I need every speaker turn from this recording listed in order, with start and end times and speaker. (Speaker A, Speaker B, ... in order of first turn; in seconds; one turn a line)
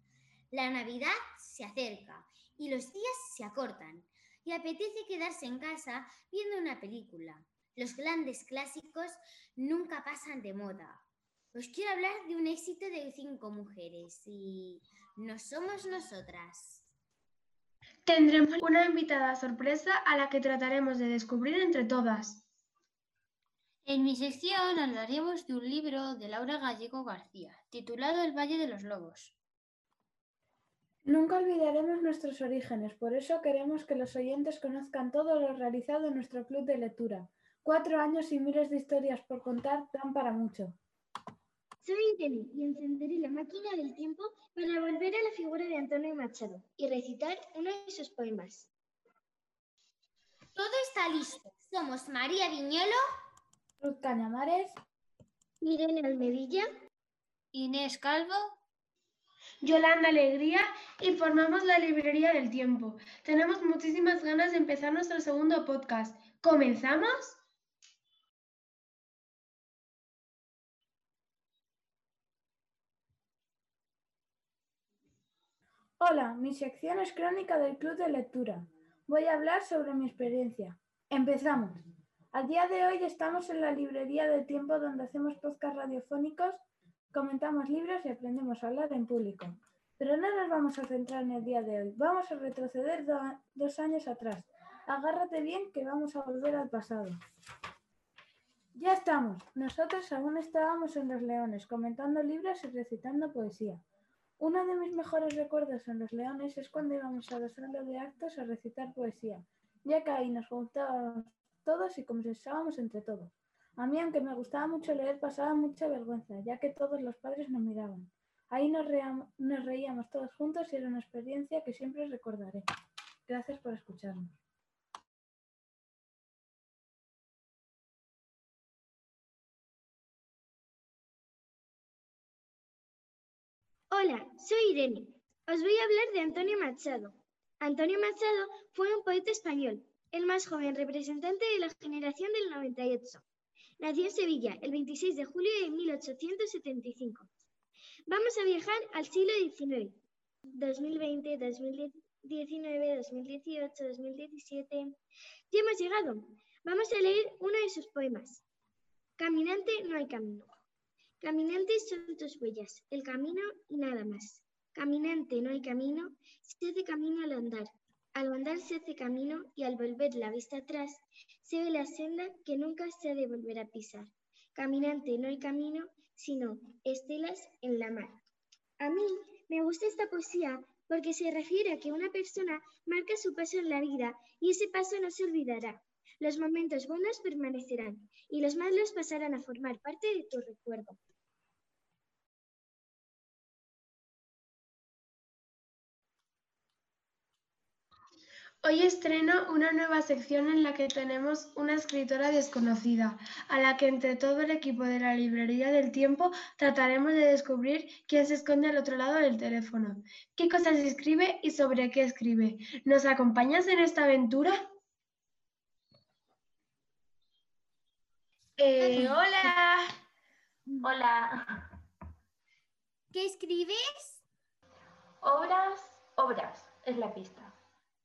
Speaker A: 0.5-11.0
Speaker A: 11.5-16.9
Speaker B: 18.1-22.4
Speaker C: 23.9-29.4
Speaker D: 31.1-40.8
Speaker E: 41.8-48.7
Speaker A: 50.5-53.0
Speaker D: 53.8-54.7
Speaker E: 55.6-56.7
Speaker C: 57.5-58.6
Speaker B: 59.6-67.4
Speaker D: 76.0-97.2
Speaker D: 98.8-103.8
Speaker D: 104.4-122.7
Speaker D: 123.3-124.3
Speaker E: 133.9-143.2
Speaker E: 143.8-147.3
Speaker E: 148.1-150.0
Speaker E: 150.5-154.9
Speaker E: 155.5-158.4
Speaker E: 159.2-160.6
Speaker E: 161.2-178.2
Speaker E: 178.8-191.0
Speaker B: 198.6-214.6
Speaker B: 218.6-219.9
Speaker F: 220.8-221.7
Speaker A: 223.1-224.2
Speaker F: 225.2-227.5